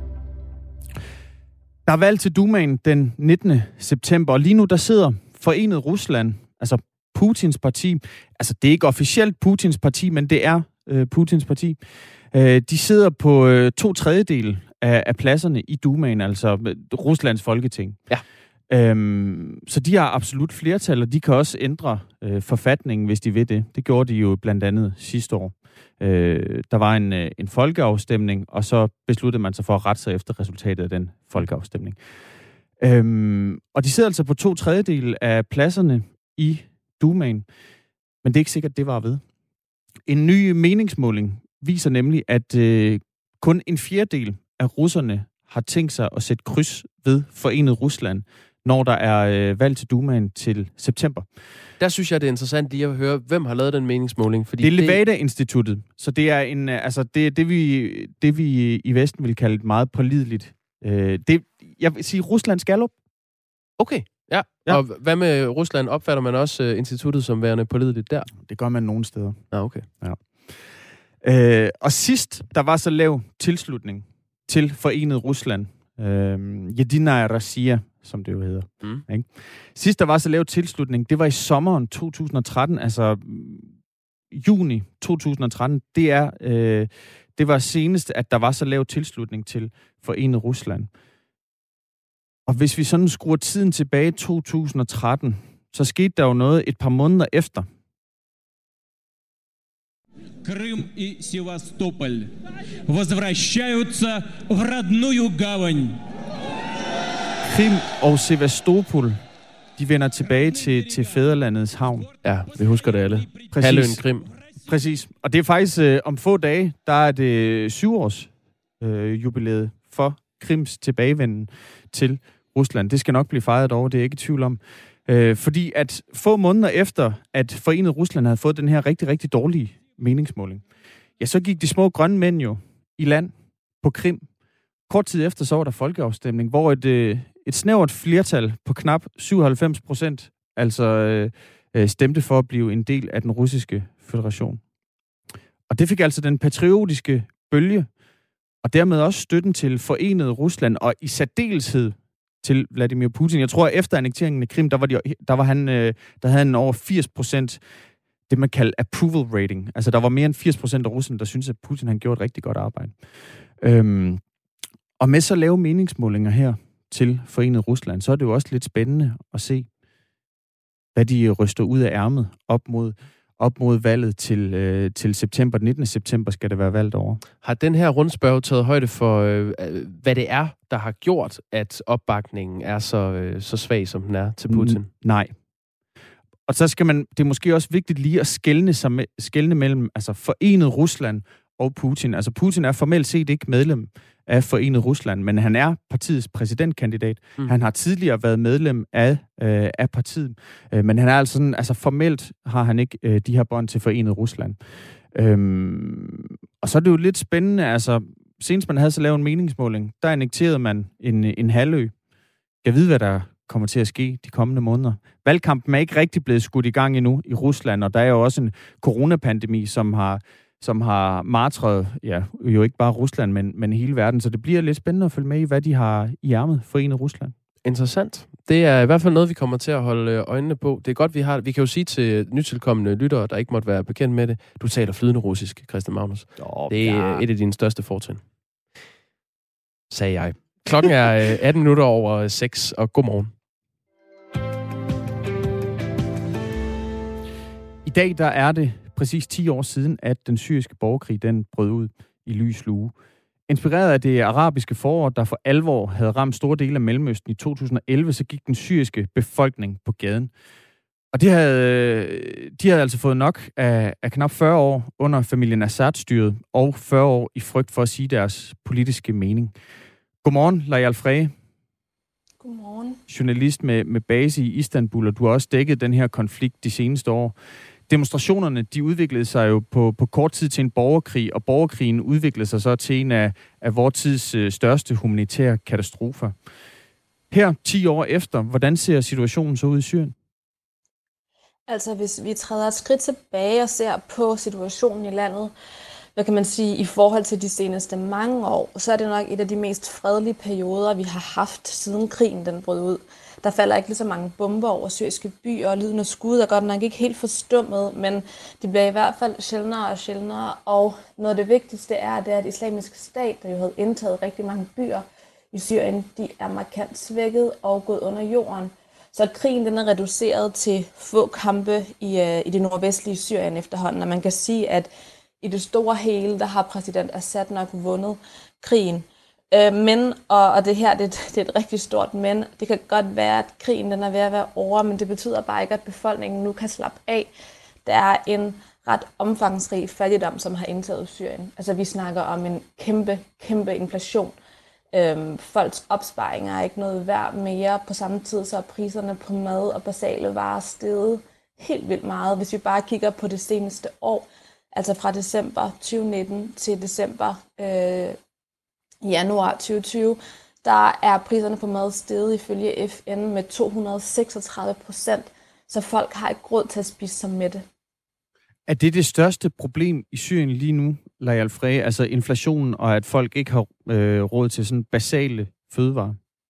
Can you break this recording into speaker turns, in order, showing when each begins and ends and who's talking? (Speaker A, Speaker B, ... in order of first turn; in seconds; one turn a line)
Speaker A: 1.9-18.0
Speaker A: 18.7-32.0
Speaker A: 32.8-37.5
Speaker A: 38.2-39.2
Speaker A: 40.0-51.3
Speaker B: 51.8-55.0
Speaker A: 54.6-62.9
Speaker B: 63.8-68.3
Speaker A: 68.3-83.7
Speaker B: 69.5-69.9
Speaker A: 84.3-90.9
Speaker A: 92.5-97.7
Speaker C: 100.4-106.0
Speaker A: 107.4-109.2
Speaker A: 109.8-112.1
Speaker B: 112.2-114.3
Speaker A: 113.5-114.0
Speaker A: 114.6-130.6
Speaker A: 131.2-134.3
Speaker A: 134.9-144.6
Speaker A: 145.7-147.9
Speaker A: 148.6-157.6
Speaker A: 158.3-164.2
Speaker A: 165.0-169.7
Speaker A: 170.9-177.2
Speaker B: 177.4-184.9
Speaker A: 184.5-185.3
Speaker A: 186.5-204.6
Speaker A: 205.1-211.9
Speaker A: 212.6-227.3
Speaker B: 227.6-238.2
Speaker A: 236.4-237.2
Speaker B: 239.9-243.3
Speaker A: 247.8-252.9
Speaker A: 253.5-260.3
Speaker A: 261.1-269.5
Speaker A: 270.2-271.3
Speaker D: 272.4-273.0
Speaker A: 273.1-277.3
Speaker A: 277.9-286.4
Speaker A: 287.3-290.1
Speaker D: 291.7-295.5
Speaker D: 296.1-324.9
Speaker D: 325.4-337.3
Speaker D: 337.9-344.3
Speaker D: 344.9-358.2
Speaker D: 359.0-367.6
Speaker A: 368.7-376.2